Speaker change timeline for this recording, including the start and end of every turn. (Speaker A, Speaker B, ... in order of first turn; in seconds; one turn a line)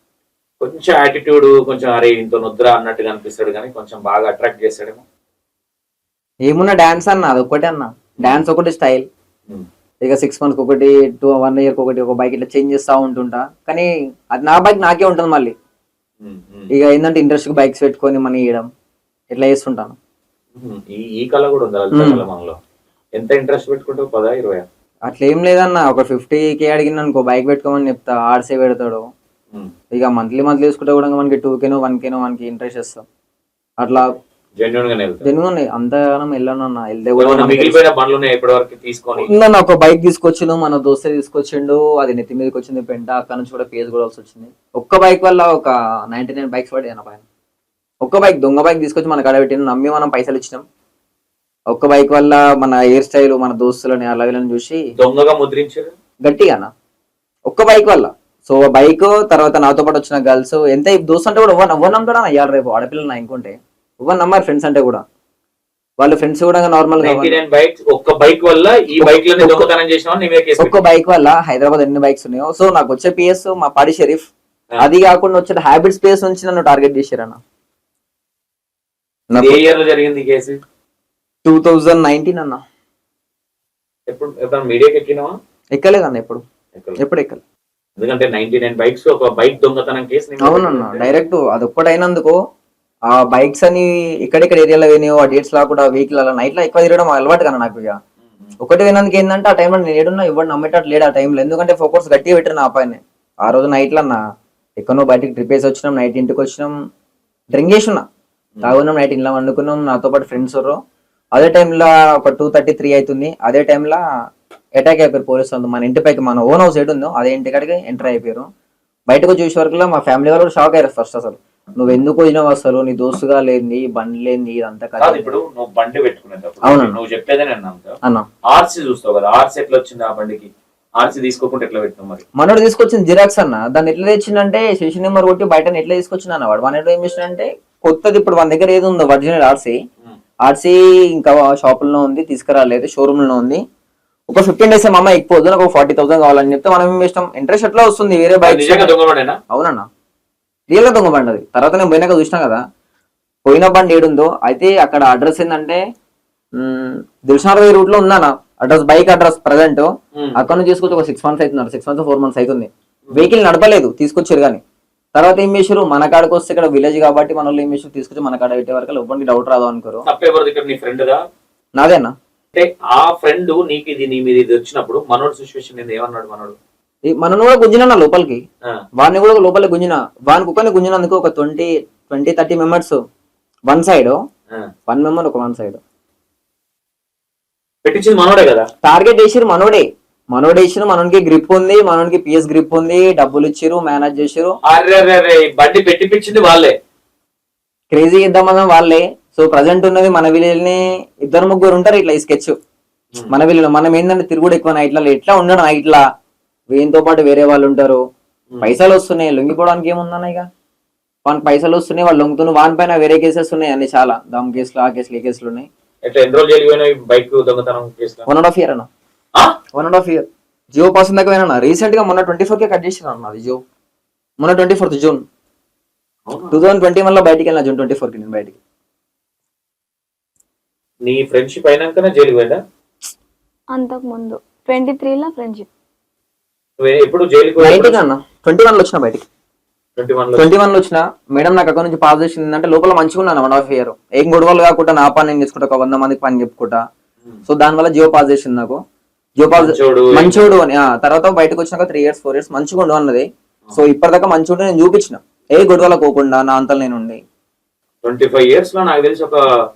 Speaker A: 0.6-5.0
Speaker B: 6.5-9.1
Speaker B: 10.0-15.5
Speaker A: 16.2-16.7
Speaker B: 16.7-18.7
Speaker B: 19.3-20.0
Speaker A: 20.5-22.6
Speaker B: 21.9-22.2
Speaker A: 23.1-24.6
Speaker B: 25.1-29.0
Speaker B: 29.9-33.0
Speaker B: 33.8-34.1
Speaker A: 34.5-35.2
Speaker B: 35.2-37.8
Speaker A: 37.2-39.3
Speaker B: 39.2-47.2
Speaker B: 48.0-50.6
Speaker B: 51.7-54.8
Speaker A: 55.0-55.9
Speaker B: 56.2-56.7
Speaker B: 57.5-65.0
Speaker B: 66.0-67.4
Speaker A: 67.0-70.7
Speaker B: 69.0-69.7
Speaker B: 70.6-74.3
Speaker B: 74.8-77.4
Speaker B: 79.3-79.6
Speaker A: 79.3-80.6
Speaker B: 81.4-82.6
Speaker A: 84.1-85.3
Speaker B: 85.7-86.4
Speaker A: 86.7-87.0
Speaker B: 87.0-87.4
Speaker A: 88.0-91.1
Speaker B: 90.4-92.3
Speaker B: 93.1-98.0
Speaker B: 98.6-104.2
Speaker B: 104.8-106.7
Speaker B: 107.5-108.0
Speaker B: 108.6-110.8
Speaker B: 111.3-114.0
Speaker B: 114.8-118.5
Speaker B: 119.1-125.3
Speaker A: 125.0-128.0
Speaker B: 126.6-127.0
Speaker A: 128.5-132.2
Speaker B: 132.4-139.8
Speaker B: 140.4-143.6
Speaker B: 144.3-148.9
Speaker A: 148.4-149.4
Speaker B: 149.5-149.8
Speaker B: 150.7-152.6
Speaker B: 153.4-155.8
Speaker B: 156.6-164.6
Speaker B: 165.1-170.0
Speaker A: 170.1-171.2
Speaker B: 171.8-172.1
Speaker A: 172.5-176.6
Speaker B: 177.1-178.4
Speaker B: 179.0-183.0
Speaker B: 183.7-184.2
Speaker B: 184.9-185.8
Speaker A: 187.8-188.7
Speaker B: 188.8-194.6
Speaker A: 194.7-196.7
Speaker B: 197.9-202.5
Speaker B: 203.3-206.0
Speaker B: 206.7-208.0
Speaker B: 208.6-210.4
Speaker B: 211.2-215.7
Speaker A: 216.0-218.2
Speaker B: 218.3-218.9
Speaker B: 219.7-223.6
Speaker B: 224.4-225.2
Speaker A: 226.3-226.6
Speaker B: 226.5-228.6
Speaker A: 231.0-232.6
Speaker C: 233.7-235.7
Speaker A: 236.8-238.0
Speaker B: 237.6-239.2
Speaker A: 240.0-240.5
Speaker B: 240.3-246.8
Speaker B: 247.5-248.8
Speaker B: 249.4-257.2
Speaker A: 249.6-250.6
Speaker A: 258.0-259.4